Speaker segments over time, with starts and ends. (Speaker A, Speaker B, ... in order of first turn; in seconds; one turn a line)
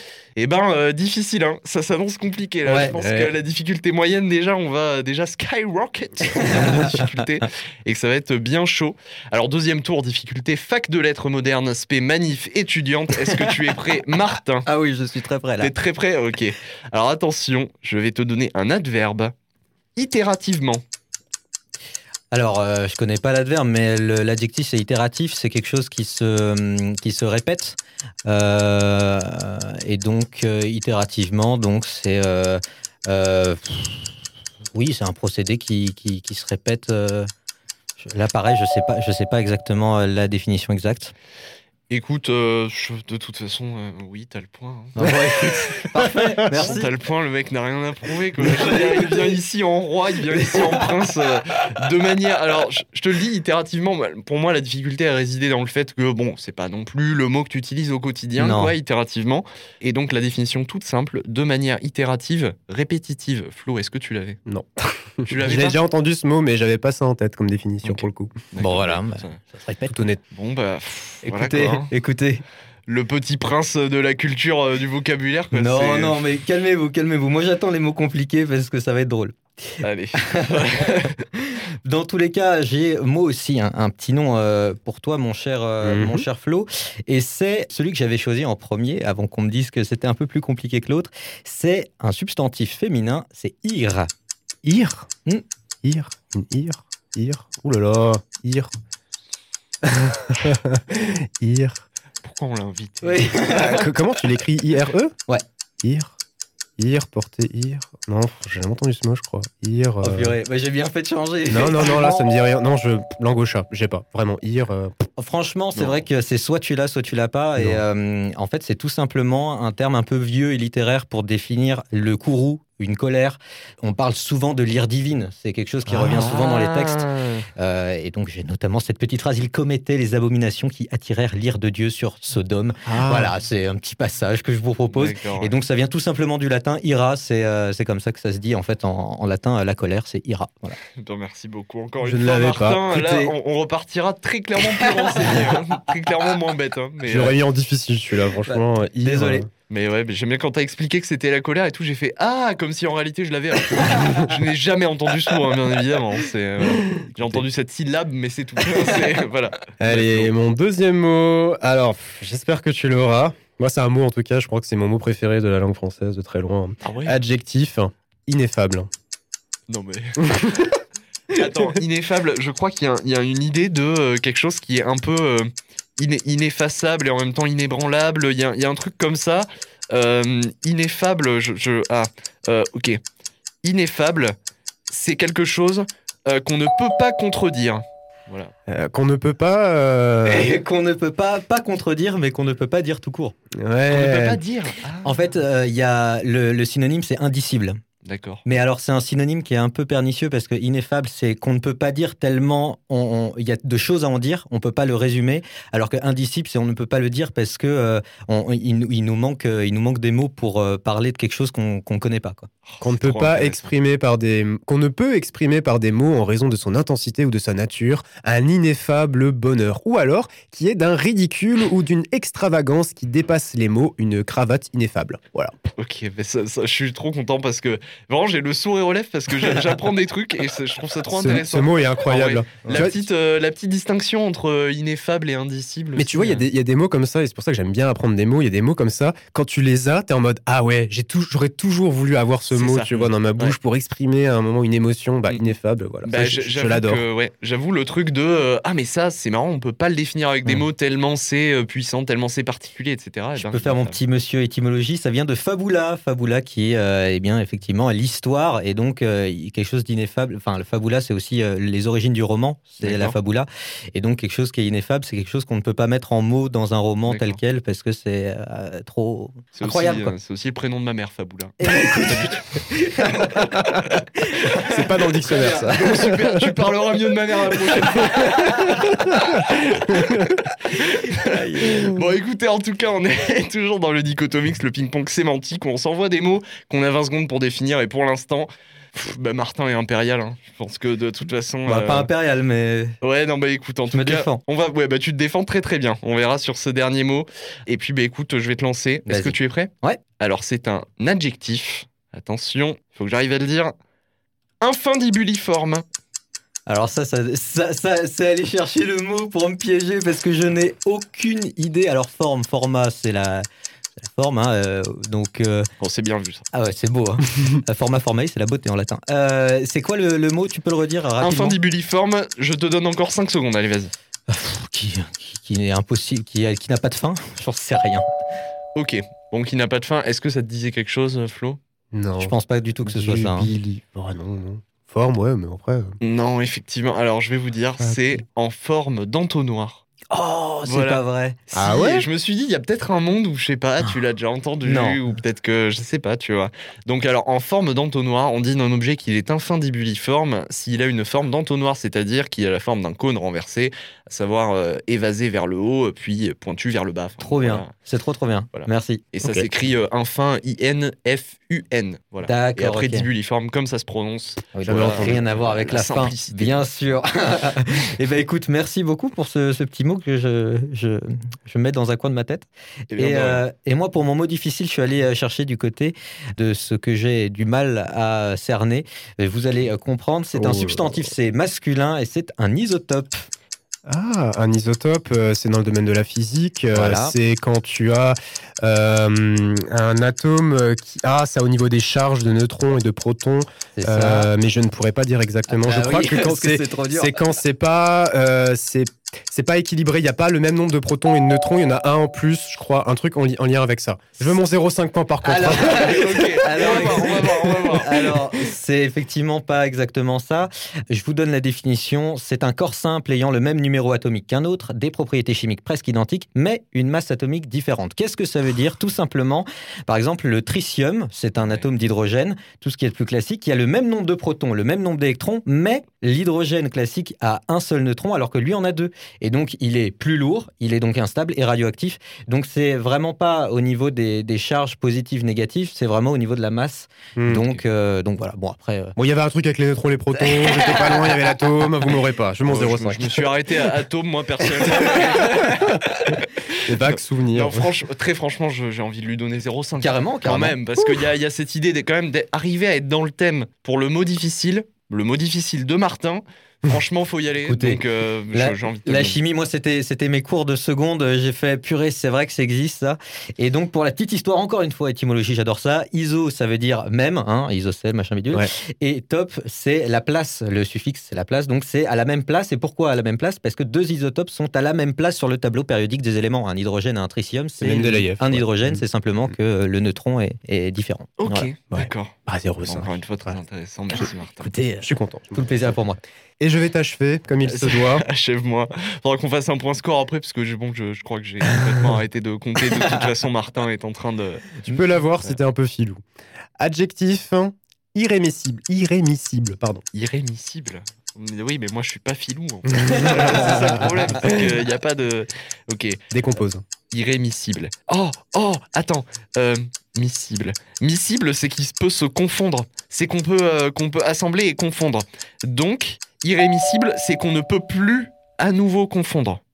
Speaker A: 0.4-14.7
Speaker B: 2.6-3.2
Speaker B: 6.4-6.9
Speaker B: 13.3-13.5
Speaker B: 14.7-15.7
Speaker A: 15.6-19.3
Speaker A: 19.9-20.8
Speaker B: 22.3-34.1
Speaker B: 34.7-37.3
Speaker B: 38.0-41.1
Speaker A: 41.9-45.1
Speaker B: 45.0-46.9
Speaker C: 46.4-46.8
Speaker A: 46.5-64.4
Speaker B: 48.5-49.1
Speaker B: 50.4-50.9
Speaker B: 58.4-58.7
Speaker C: 64.5-68.4
Speaker A: 65.2-65.8
Speaker A: 67.8-69.4
Speaker B: 68.6-70.1
Speaker C: 69.9-70.2
Speaker A: 70.3-71.9
Speaker B: 71.2-72.4
Speaker A: 72.9-76.2
Speaker B: 75.5-80.6
Speaker A: 79.8-81.2
Speaker B: 81.5-94.1
Speaker C: 85.8-86.2
Speaker C: 94.6-95.1
Speaker C: 95.8-98.7
Speaker C: 100.3-101.8
Speaker A: 102.2-103.3
Speaker B: 103.0-103.9
Speaker C: 103.5-105.1
Speaker C: 105.8-106.1
Speaker C: 106.8-110.4
Speaker B: 110.0-112.3
Speaker C: 111.5-114.9
Speaker B: 115.2-140.8
Speaker A: 115.7-116.0
Speaker C: 117.5-117.8
Speaker A: 125.9-127.5
Speaker C: 132.8-133.3
Speaker A: 134.9-135.5
Speaker A: 141.0-147.4
Speaker C: 142.0-142.8
Speaker B: 142.9-143.3
Speaker B: 144.8-145.5
Speaker C: 147.0-149.5
Speaker B: 148.4-149.5
Speaker A: 149.7-160.3
Speaker C: 156.8-157.4
Speaker C: 159.8-168.9
Speaker A: 166.8-167.2
Speaker A: 169.7-170.5
Speaker C: 170.2-170.7
Speaker A: 171.3-183.0
Speaker A: 183.6-184.3
Speaker A: 184.9-188.5
Speaker C: 188.7-190.6
Speaker B: 190.2-193.3
Speaker C: 193.6-194.4
Speaker A: 193.9-195.2
Speaker B: 195.0-197.8
Speaker A: 198.0-198.4
Speaker B: 198.4-212.5
Speaker A: 212.7-213.7
Speaker C: 212.8-225.5
Speaker A: 225.8-236.4
Speaker C: 231.1-233.1
Speaker B: 232.6-232.9
Speaker C: 235.9-247.0
Speaker A: 242.5-243.6
Speaker A: 246.0-254.0
Speaker B: 253.3-270.1
Speaker A: 262.8-263.1
Speaker A: 267.1-267.4
Speaker A: 269.5-272.6
Speaker B: 271.6-273.6
Speaker B: 274.2-276.1
Speaker C: 274.6-276.4
Speaker A: 275.7-280.1
Speaker C: 278.8-279.1
Speaker C: 279.9-280.4
Speaker A: 280.6-292.1
Speaker C: 281.6-281.9
Speaker B: 291.6-292.9
Speaker A: 293.0-303.7
Speaker B: 293.9-294.4
Speaker B: 299.1-300.0
Speaker A: 304.6-305.8
Speaker B: 306.7-313.4
Speaker B: 314.0-315.7
Speaker A: 315.8-316.4
Speaker B: 316.5-321.6
Speaker A: 321.2-323.9
Speaker B: 324.3-328.1
Speaker A: 328.7-331.6
Speaker C: 331.9-335.9
Speaker B: 332.2-333.5
Speaker A: 336.0-339.8
Speaker C: 337.8-338.2
Speaker B: 340.1-341.4
Speaker A: 340.6-357.7
Speaker C: 341.5-342.1
Speaker B: 344.6-345.0
Speaker B: 357.2-359.0
Speaker A: 358.5-366.7
Speaker B: 362.2-363.1
Speaker B: 364.5-383.3
Speaker C: 364.6-365.2
Speaker A: 372.9-373.4
Speaker C: 380.3-381.1
Speaker C: 383.9-406.8
Speaker B: 386.7-387.1
Speaker B: 393.7-394.3
Speaker B: 395.5-397.2
Speaker B: 405.2-438.9
Speaker A: 405.7-408.3
Speaker A: 421.4-421.7
Speaker C: 437.1-437.5
Speaker C: 438.9-443.3
Speaker B: 440.2-441.7
Speaker A: 442.4-446.3
Speaker B: 444.6-445.1
Speaker C: 446.6-447.7
Speaker A: 446.8-459.2
Speaker B: 449.8-450.6
Speaker B: 457.4-457.8
Speaker B: 458.3-481.5
Speaker C: 477.6-478.8
Speaker A: 481.2-484.5
Speaker C: 481.7-483.4
Speaker B: 484.4-486.0
Speaker C: 484.8-485.8
Speaker C: 486.4-488.1
Speaker A: 487.4-494.7
Speaker C: 494.6-496.0
Speaker C: 496.6-499.8
Speaker A: 499.9-506.0
Speaker B: 503.3-503.6
Speaker C: 506.1-506.6
Speaker A: 506.9-519.4